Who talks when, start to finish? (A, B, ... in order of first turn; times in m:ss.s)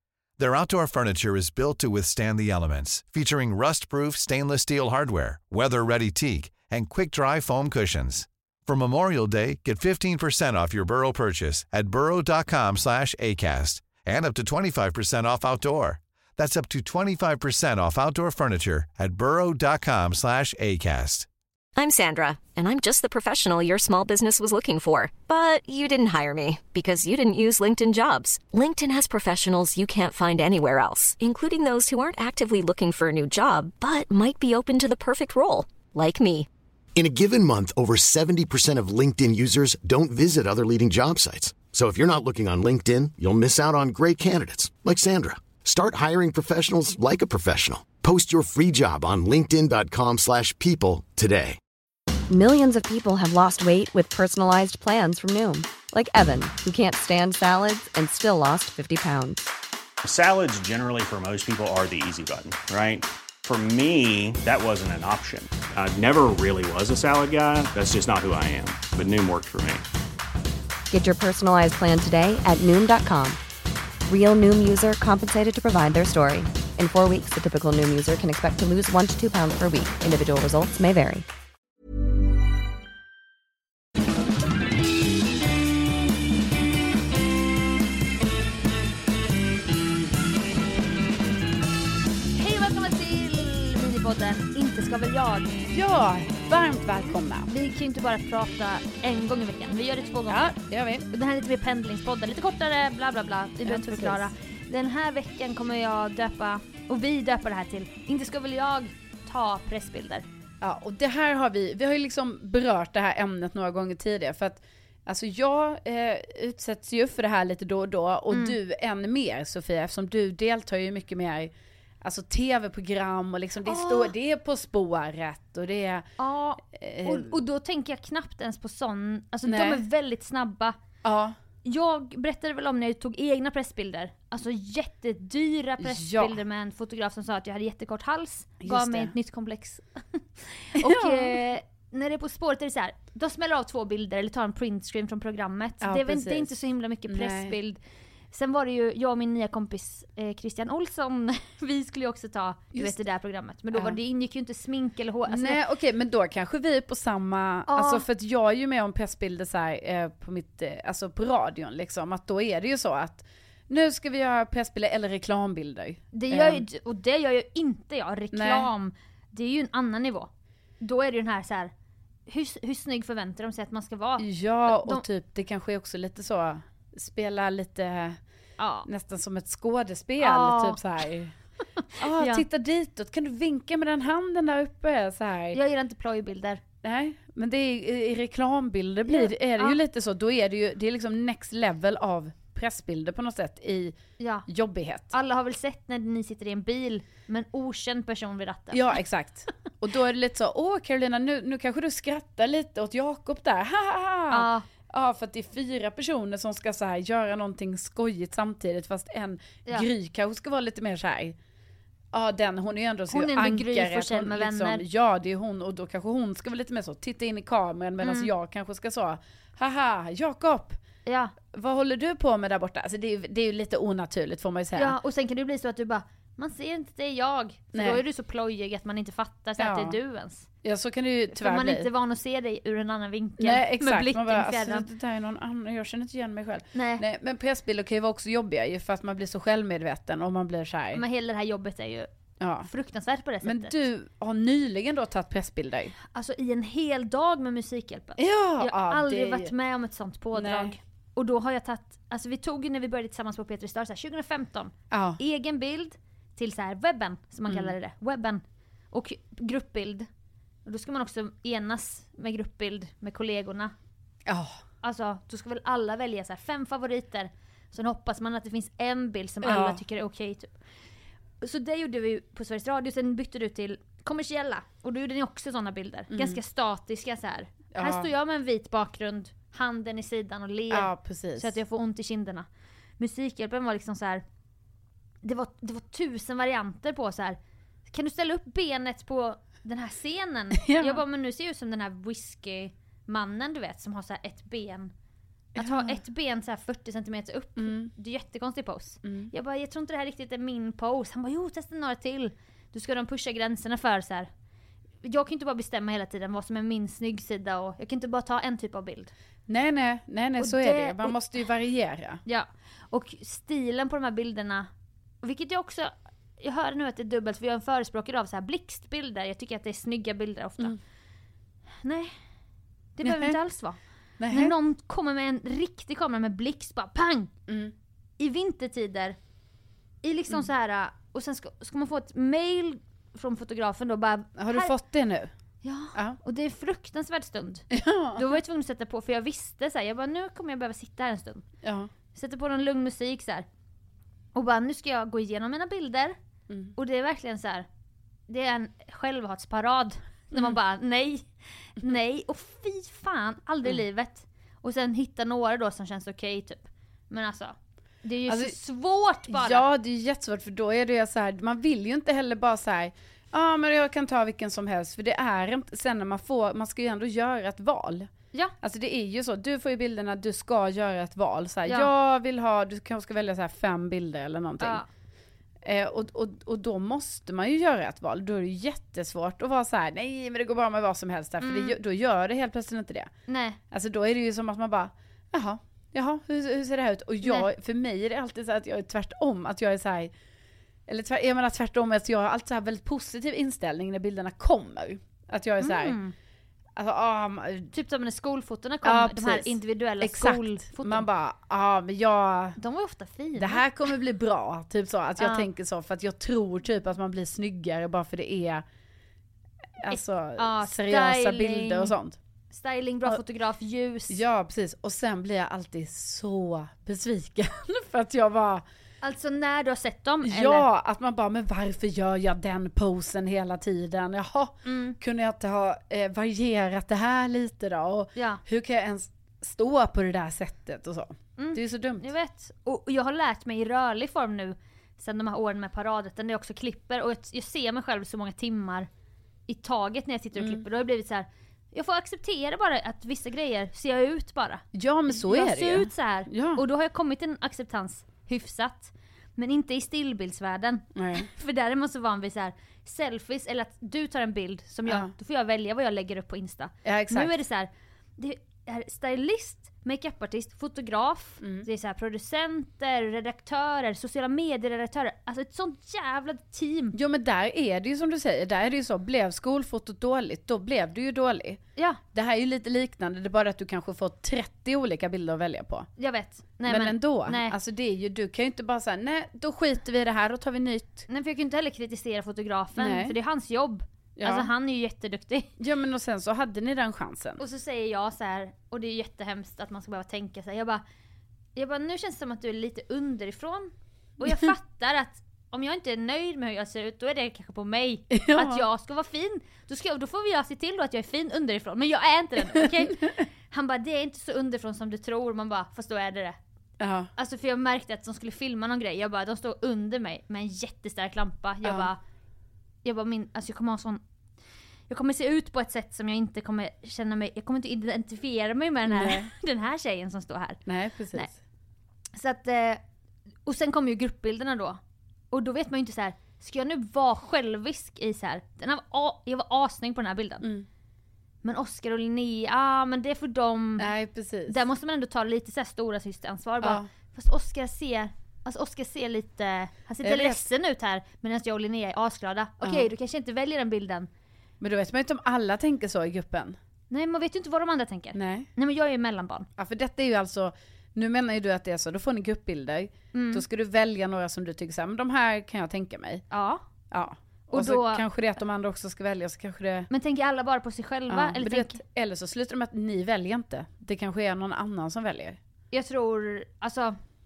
0:00.4-0:21.3 A
0:21.8-0:36.5 B
0:37.0-0:51.6 C
0:52.3-0:59.5 D
1:00.0-1:09.8 E
1:10.9-1:13.4 D
1:14.1-1:21.3 D
1:32.4-1:35.6 F
1:35.7-1:37.5 G
1:37.5-1:40.6 F
1:40.3-1:41.1 G
1:41.1-1:50.3 F
1:43.6-1:44.3 G
1:50.6-2:06.1 G
1:58.3-1:58.6 F
2:03.6-2:04.1 F
2:06.2-2:10.8 F
2:06.7-2:07.4 G
2:09.5-2:09.8 G
2:11.0-2:11.4 G
2:11.6-2:27.8 F
2:15.8-2:16.4 G
2:18.6-2:19.2 G
2:20.8-2:21.4 G
2:25.8-2:26.5 G
2:27.1-2:27.6 G
2:28.3-2:35.6 F
2:33.7-2:34.0 G
2:35.3-2:46.6 G
2:37.7-2:38.0 F
2:46.1-2:51.7 F
2:48.3-2:48.7 G
2:52.3-2:55.0 F
2:54.2-2:58.2 G
2:58.6-2:58.9 F
2:58.9-3:01.3 G
3:00.2-3:00.8 F
3:01.6-3:02.5 F
3:02.0-3:05.6 G
3:05.5-3:06.6 F
3:06.8-3:15.1 G
3:09.1-3:09.8 F
3:14.2-3:14.5 F
3:15.1-3:19.0 F
3:18.7-3:31.4 G
3:24.3-3:24.7 F
3:32.1-3:40.8 G
3:33.1-3:34.8 F
3:38.0-3:38.3 F
3:41.1-3:41.3 F
3:41.5-3:45.0 G
3:44.8-3:50.4 F
3:47.7-3:48.0 G
3:49.6-3:50.0 G
3:50.6-3:51.9 G
3:51.3-3:54.9 F
3:53.4-4:01.0 G
3:56.7-3:57.0 F
4:00.9-4:02.1 F
4:02.4-4:02.7 G
4:02.6-4:03.7 F
4:03.4-4:06.0 G
4:06.1-4:20.1 F
4:08.2-4:09.5 G
4:10.3-4:10.7 G
4:14.9-4:15.2 G
4:17.5-4:17.8 G
4:20.7-4:23.7 F
4:24.3-4:24.6 G
4:24.8-4:30.6 F
4:29.4-4:29.8 G
4:31.4-4:42.5 F
4:36.1-4:36.4 G
4:37.7-4:38.1 G
4:40.7-4:41.6 G
4:43.0-4:44.2 F
4:45.2-4:47.4 F
4:47.9-4:54.9 F
4:50.6-4:51.0 G
4:55.6-4:56.0 G
4:55.6-5:04.3 F
4:57.6-4:57.9 G
4:59.0-4:59.3 G
5:05.0-5:09.1 F
5:09.5-5:12.2 G
5:10.4-5:11.2 F
5:12.3-5:14.7 F
5:15.2-5:20.8 F
5:21.8-5:22.1 F
5:23.0-5:27.3 F
5:23.0-5:23.4 G
5:24.2-5:24.6 G
5:27.5-5:27.7 G
5:28.2-5:29.2 F
5:30.0-5:34.7 F
5:34.4-5:35.3 G
5:35.6-5:41.4 F
5:35.9-5:36.2 G
5:37.7-5:38.4 G
5:41.6-5:41.9 G
5:42.1-5:43.5 F
5:44.4-5:46.2 F
5:46.5-5:46.7 G
5:46.8-5:47.7 F
5:48.3-5:59.6 F
5:58.3-5:58.6 G
5:59.3-6:14.8 G
6:14.6-6:14.9 F
6:15.6-6:23.1 G
6:21.4-6:21.8 F
6:23.3-6:23.6 F
6:23.7-6:30.1 G
6:27.2-6:27.5 F
6:30.9-6:36.0 G
6:35.6-6:36.1 F
6:36.8-6:37.7 G
6:37.7-6:41.1 F
6:38.8-6:42.6 G
6:42.6-6:43.6 F
6:43.4-6:48.6 G
6:45.2-6:45.5 F
6:49.8-6:52.2 G
6:49.9-6:52.0 F
6:52.5-6:54.2 F
6:54.1-6:58.6 G
6:59.0-7:00.7 F
7:00.2-7:12.1 G
7:04.6-7:05.0 F
7:08.2-7:08.4 F
7:11.4-7:18.9 F
7:19.5-7:47.0 F
7:20.4-7:20.6 G
7:24.7-7:26.6 G
7:31.0-7:31.3 G
7:34.9-7:35.1 G
7:36.8-7:37.4 G
7:41.4-7:41.7 G
7:46.9-7:51.6 G
7:52.1-7:55.9 G
7:56.0-7:57.6 F
7:56.7-8:01.1 G
8:01.1-8:05.5 F
8:02.8-8:03.2 G
8:04.2-8:04.5 G
8:05.6-8:07.4 G
8:07.4-8:10.8 F
8:11.6-8:26.4 F
8:18.1-8:18.6 G
8:26.8-8:27.1 G
8:27.2-8:32.0 F
8:31.6-8:31.9 G
8:32.8-8:34.0 F
8:34.9-8:40.6 F
8:38.9-8:39.3 G
8:40.7-8:41.4 G
8:42.2-8:42.8 F
8:43.5-8:44.8 F
8:45.3-8:50.5 F
8:51.4-8:53.9 F
8:53.8-8:54.6 G
8:54.5-9:04.1 F
9:00.0-9:00.5 G
9:02.6-9:02.9 G
9:04.6-9:06.6 G
9:06.9-9:09.5 F
9:08.1-9:08.5 G
9:09.6-9:16.2 G
9:13.1-9:13.4 F
9:16.3-9:16.6 F
9:16.9-9:19.9 G
9:17.5-9:18.0 F
9:19.9-9:21.8 F
9:21.1-9:25.4 G
9:25.7-9:27.0 F